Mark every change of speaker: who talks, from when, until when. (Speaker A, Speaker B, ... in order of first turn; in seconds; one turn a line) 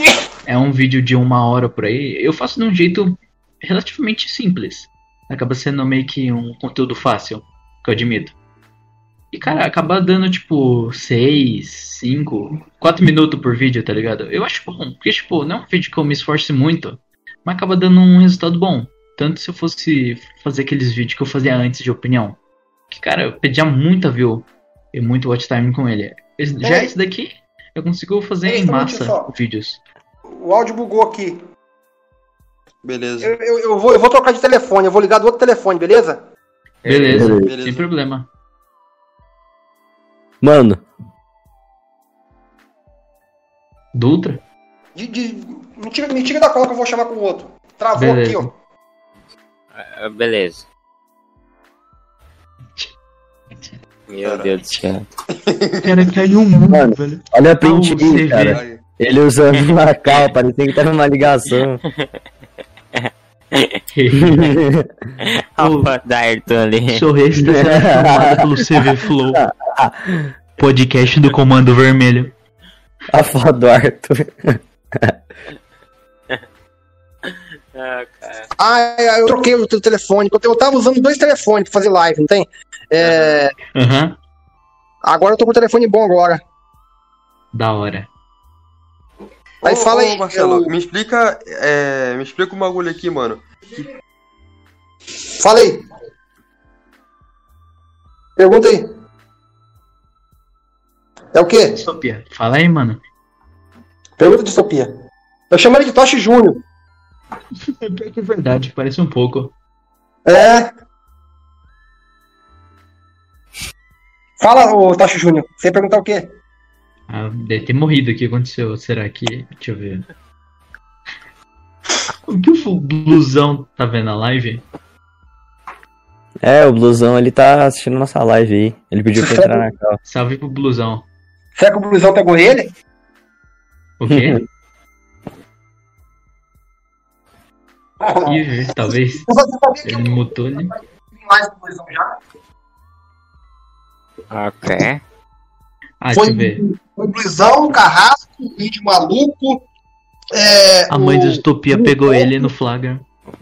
Speaker A: 0.5-8.3
Speaker A: 9.3-22.4
Speaker A: 22.9-29.8
Speaker B: 26.6-26.9
Speaker B: 28.5-29.3
Speaker B: 30.4-31.4
Speaker C: 32.8-33.3
Speaker B: 33.2-36.3
Speaker C: 36.8-37.9
Speaker A: 36.9-38.3
Speaker D: 37.1-37.5
Speaker D: 40.4-40.8
Speaker A: 43.9-44.4
Speaker B: 45.0-48.5
Speaker A: 48.0-48.5
Speaker E: 49.8-50.7
Speaker E: 54.1-55.0
Speaker C: 54.2-54.5
Speaker C: 55.3-56.1
Speaker A: 55.8-58.6
Speaker D: 56.7-61.8
Speaker C: 58.5-58.8
Speaker E: 63.5-63.8
Speaker A: 63.9-64.5
Speaker D: 64.2-64.9
Speaker E: 65.2-67.0
Speaker A: 65.6-66.0
Speaker A: 66.9-69.5
Speaker D: 67.4-68.5
Speaker D: 69.3-70.3
Speaker A: 70.6-72.3
Speaker D: 73.1-75.2
Speaker E: 77.8-78.5
Speaker B: 78.6-83.5
Speaker A: 83.8-84.2
Speaker B: 85.0-86.4
Speaker A: 87.5-88.1
Speaker C: 89.6-93.5
Speaker B: 89.6-90.7
Speaker B: 95.3-95.9
Speaker B: 98.4-98.8
Speaker B: 101.3-101.8
Speaker A: 101.8-103.0
Speaker B: 104.2-104.9
Speaker B: 105.5-106.6
Speaker A: 107.7-109.5
Speaker B: 110.3-110.7
Speaker B: 114.4-116.3
Speaker A: 117.1-120.1
Speaker A: 122.3-124.6
Speaker D: 126.4-130.0
Speaker B: 129.2-129.7
Speaker A: 130.0-131.1
Speaker B: 131.6-132.7
Speaker A: 134.0-134.4
Speaker D: 134.1-134.4
Speaker B: 138.0-142.2
Speaker A: 138.2-139.3
Speaker A: 139.8-140.8
Speaker E: 144.3-145.0
Speaker A: 146.0-146.6
Speaker B: 146.1-149.7
Speaker B: 150.3-152.5
Speaker A: 150.9-153.1